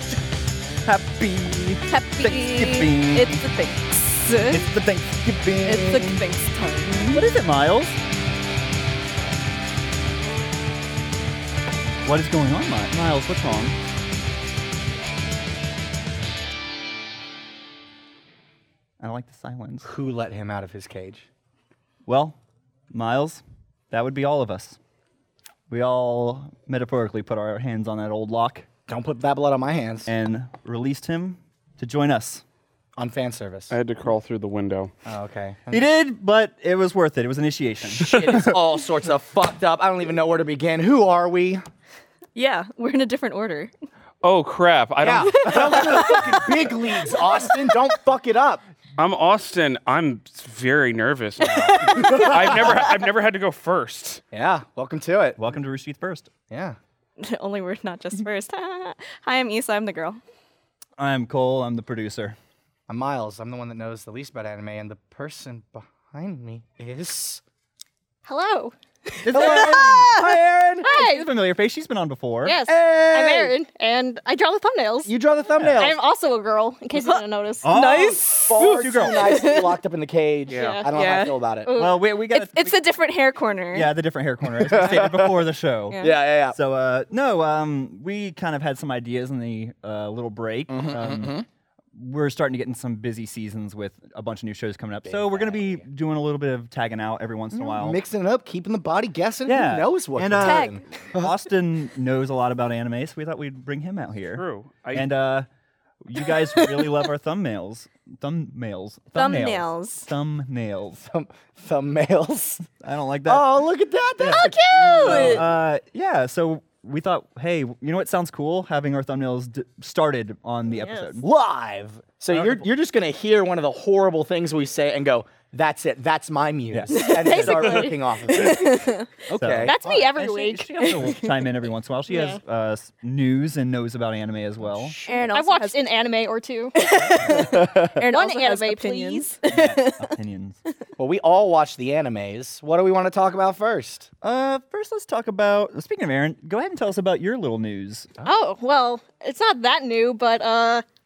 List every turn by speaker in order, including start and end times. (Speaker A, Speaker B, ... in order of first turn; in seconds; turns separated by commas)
Speaker A: 0.8-3.4, Speaker B: 1.9-4.7, Speaker A: 4.4-6.2, Speaker B: 5.6-7.3, Speaker A: 6.9-8.0, Speaker A: 12.0-13.8, Speaker A: 19.0-19.9, Speaker C: 19.9-21.3, Speaker A: 22.1-22.4, Speaker A: 22.9-24.8, Speaker A: 25.7-28.7, Speaker C: 28.9-30.1, Speaker A: 30.1-32.4, Speaker C: 33.0-33.7, Speaker D: 33.7-34.9, Speaker C: 35.1-35.9, Speaker A: 35.7-38.6, Speaker C: 37.9-41.6, Speaker B: 42.3-43.7, Speaker D: 44.2-46.2, Speaker C: 45.0-48.6, Speaker B: 45.5-47.6, Speaker D: 49.0-54.2, Speaker B: 51.4-52.6, Speaker C: 51.8-52.9, Speaker C: 54.3-55.4, Speaker A: 55.4-56.3, Speaker C: 56.5-56.8, Speaker B: 57.2-60.2, Speaker A: 61.0-62.4, Speaker C: 62.9-67.4, Speaker E: 68.2-70.2, Speaker A: 69.2-70.1, Speaker C: 69.3-70.9, Speaker E: 70.8-71.3, Speaker A: 70.8-72.6, Speaker E: 72.4-75.1, Speaker C: 72.6-73.5, Speaker C: 75.0-76.0, Speaker A: 75.6-75.9, Speaker E: 75.7-77.8, Speaker B: 76.9-79.7, Speaker A: 77.6-79.4, Speaker C: 78.3-81.7, Speaker D: 80.5-80.8, Speaker E: 80.5-80.9, Speaker B: 80.9-83.9, Speaker E: 81.6-82.0, Speaker A: 81.7-82.9, Speaker A: 83.7-91.3, Speaker C: 84.5-85.5, Speaker B: 85.9-86.2, Speaker C: 86.0-86.6, Speaker C: 90.7-91.5, Speaker A: 91.9-98.0, Speaker C: 95.0-95.8, Speaker C: 97.5-101.3, Speaker A: 99.5-105.5, Speaker B: 100.4-100.8, Speaker D: 104.3-105.1, Speaker A: 106.0-111.0, Speaker B: 109.1-110.1, Speaker C: 111.0-112.7, Speaker A: 112.8-113.6, Speaker C: 113.3-115.5, Speaker A: 114.2-121.3, Speaker E: 114.2-115.4, Speaker C: 121.2-130.0, Speaker A: 122.3-122.6, Speaker A: 126.7-127.9, Speaker B: 126.9-129.1, Speaker E: 127.0-128.0, Speaker A: 129.3-135.0, Speaker E: 129.6-131.1, Speaker B: 130.8-131.3, Speaker E: 132.1-132.4, Speaker C: 134.6-135.2, Speaker B: 135.1-135.9, Speaker E: 135.3-136.8, Speaker B: 136.8-140.1, Speaker E: 138.0-139.4, Speaker A: 139.5-140.6, Speaker C: 141.0-144.1, Speaker A: 144.2-148.2, Speaker E: 148.2-150.8